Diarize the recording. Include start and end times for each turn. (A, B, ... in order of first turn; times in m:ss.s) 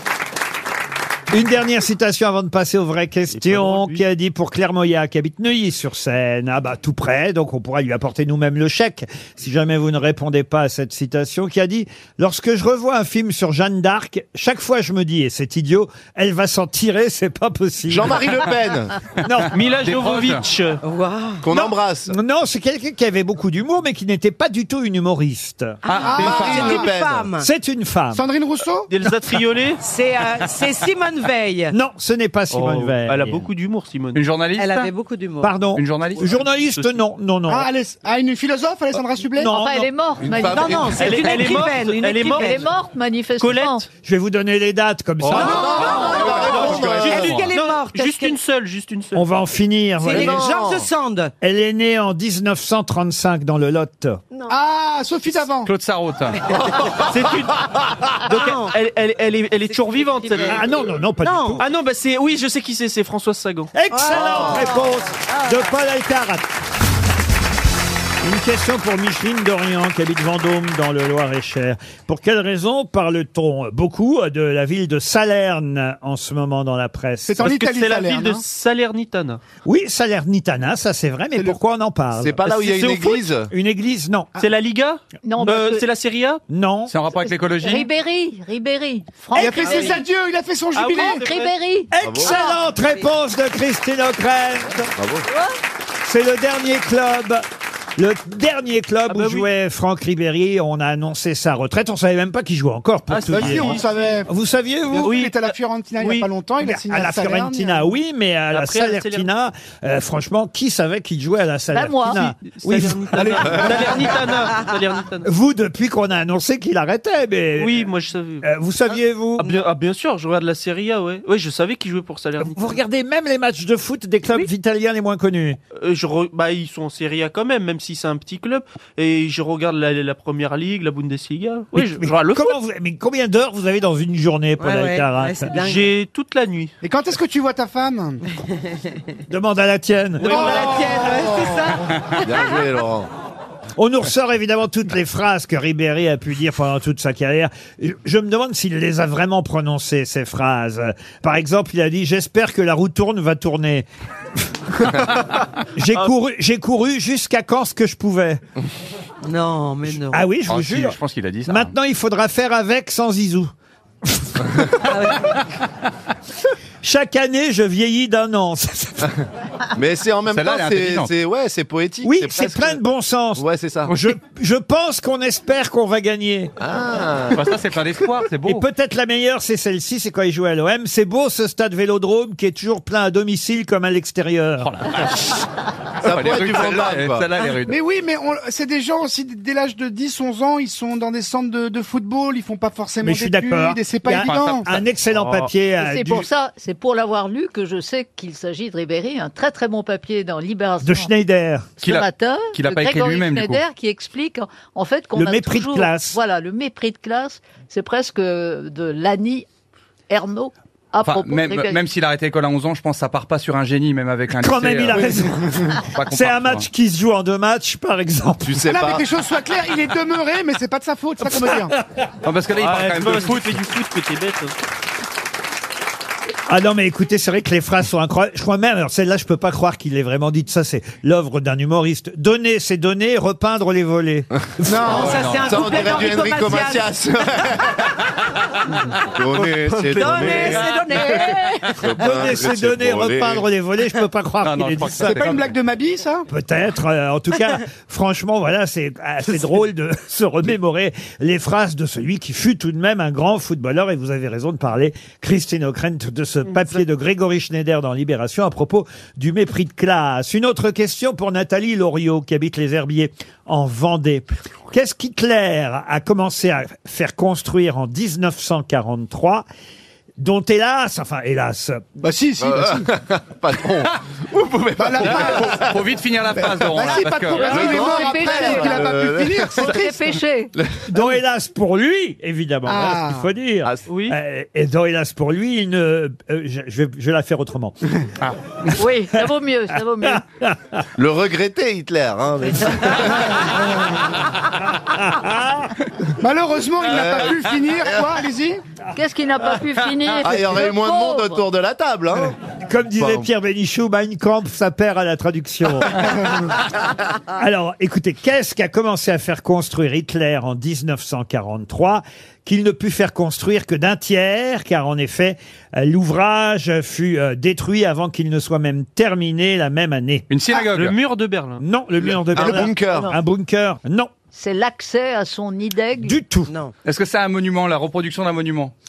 0:01.3-0:18.4 A
0:03.3-0:04.0 B
0:17.9-0:18.9 C
0:19.2-0:19.6 A
0:19.5-0:20.8 B
0:19.8-0:20.4 D
0:20.8-0:21.5 E
0:21.4-0:22.1 C
0:22.1-0:25.8 A
0:25.8-0:27.4 E
0:25.9-0:26.7 D
0:26.0-0:26.9 F
0:26.2-0:27.3 C
0:27.4-0:28.2 A
0:28.1-0:28.9 F
0:28.9-0:29.8 B
0:29.8-0:31.7 E
0:31.7-0:33.4 A
0:32.5-0:34.2 B
0:34.1-0:34.9 D
0:34.6-0:35.6 E
0:35.4-0:37.7 A
0:35.8-0:36.3 D
0:36.5-0:37.0 B
0:37.5-0:39.5 F
0:39.3-0:39.9 A
0:39.4-0:41.1 G
0:40.2-0:41.2 C
0:40.4-0:42.6 E
0:41.0-0:42.6 B
0:42.3-0:43.8 G
0:43.4-0:43.8 B
0:44.0-0:46.1 A
0:45.2-0:49.2 B
0:45.3-0:47.5 C
0:45.4-0:48.4 E
0:49.1-0:50.4 A
0:50.0-0:51.3 E
0:50.1-0:50.9 C
0:51.4-0:54.2 A
0:54.5-0:55.7 F
0:55.6-0:56.4 D
0:57.1-0:57.6 B
0:58.2-1:00.6 B
0:58.2-0:58.7 E
1:00.0-1:00.3 E
1:00.4-1:01.6 A
1:01.2-1:01.6 E
1:01.6-1:03.7 B
1:03.7-1:06.5 A
1:03.9-1:05.6 E
1:04.1-1:04.7 C
1:08.2-1:17.5 A
1:17.2-1:18.4 F
1:17.4-1:19.4 B
1:19.6-1:24.3 A
1:22.2-1:23.5 C
1:24.4-1:26.4 B
1:25.2-1:25.8 G
1:26.5-1:26.9 A
1:26.9-1:27.9 D
1:27.6-1:30.0 G
1:29.3-1:29.8 A
1:29.3-1:31.2 F
1:30.7-1:31.5 B
1:30.9-1:32.5 G
1:31.9-1:34.9 A
1:32.0-1:32.3 C
1:32.7-1:33.0 E
1:34.9-1:35.3 C
1:35.3-1:35.5 G
1:36.0-1:37.4 A
1:38.0-1:45.1 A
1:39.1-1:39.5 B
1:43.1-1:44.1 B
1:43.3-1:44.3 F
1:44.9-1:47.9 F
1:45.0-1:46.3 B
1:46.6-1:53.9 A
1:48.5-1:49.3 B
1:51.7-1:52.2 G
1:52.5-1:55.3 B
1:53.1-1:54.2 F
1:55.2-1:57.9 A
1:57.6-1:58.4 B
1:58.4-1:59.5 A
1:59.4-2:02.8 B
2:02.4-2:05.6 A
2:05.8-2:12.6 B
2:11.7-2:15.5 A
2:14.6-2:15.9 E
2:15.5-2:16.7 B
2:16.8-2:18.2 F
2:19.3-2:20.5 A
2:20.2-2:20.6 B
2:20.2-2:22.6 E
2:20.3-2:21.3 F
2:22.2-2:23.1 C
2:23.8-2:33.8 A
2:35.8-2:38.4 A
2:39.2-2:40.3 E
2:40.1-2:41.0 A
2:40.5-2:41.7 D
2:41.5-2:43.5 A
2:44.0-2:44.5 A
2:44.8-2:45.3 E
2:46.8-2:49.1 A
2:49.7-2:52.8 C
2:50.3-2:51.1 D
2:52.0-2:56.5 A
2:53.4-2:53.9 C
2:56.6-2:57.6 C
2:57.3-2:58.6 D
2:58.4-3:04.7 A
3:04.6-3:05.4 D
3:06.0-3:07.3 C
3:06.0-3:07.8 D
3:07.6-3:14.7 F
3:13.0-3:16.3 A
3:14.1-3:14.8 D
3:15.8-3:21.1 G
3:20.8-3:21.7 A
3:21.8-3:23.6 D
3:21.8-3:29.4 G
3:25.1-3:26.2 A
3:30.1-3:31.8 G
3:31.0-3:35.1 D
3:34.4-3:38.6 A
3:35.9-3:36.6 D
3:38.4-3:39.0 C
3:38.7-3:41.7 F
3:41.3-3:42.0 A
3:42.2-3:43.6 D
3:42.5-3:44.5 B
3:46.5-3:55.0 A
3:54.7-3:56.9 E
3:54.8-3:55.2 F
3:54.9-3:57.8 C
3:55.1-3:55.4 D
3:59.1-4:00.6 C
3:59.4-4:00.8 B
3:59.8-4:01.8 E
4:01.8-4:03.4 C
4:02.0-4:05.2 A
4:04.4-4:05.5 D
4:05.0-4:06.3 F
4:06.3-4:29.4 A
4:30.2-4:32.0 A
4:32.0-4:32.9 F
4:32.4-4:35.9 C
4:34.8-4:35.7 F
4:35.0-4:37.7 D
4:36.3-4:40.2 F
4:37.3-4:38.9 G
4:37.3-4:39.8 C
4:39.6-4:40.5 G
4:40.6-4:40.8 C
4:40.9-4:47.7 A
4:42.7-4:43.3 F
4:43.9-4:44.2 B
4:48.8-4:50.2 G
4:50.0-4:50.8 A
4:51.0-4:53.4 C
4:54.8-4:55.7 A
4:56.2-4:58.6 F
4:56.9-4:57.4 C
4:58.9-5:01.4 G
5:00.2-5:02.4 C
5:02.5-5:06.1 A
5:03.0-5:03.2 C
5:06.0-5:06.5 F
5:07.3-5:20.3 A
5:20.3-5:21.0 D
5:20.7-5:21.6 B
5:21.6-5:24.1 A
5:22.1-5:23.1 C
5:24.3-5:26.2 G
5:26.0-5:26.5 A
5:26.5-5:26.7 E
5:26.8-5:28.7 D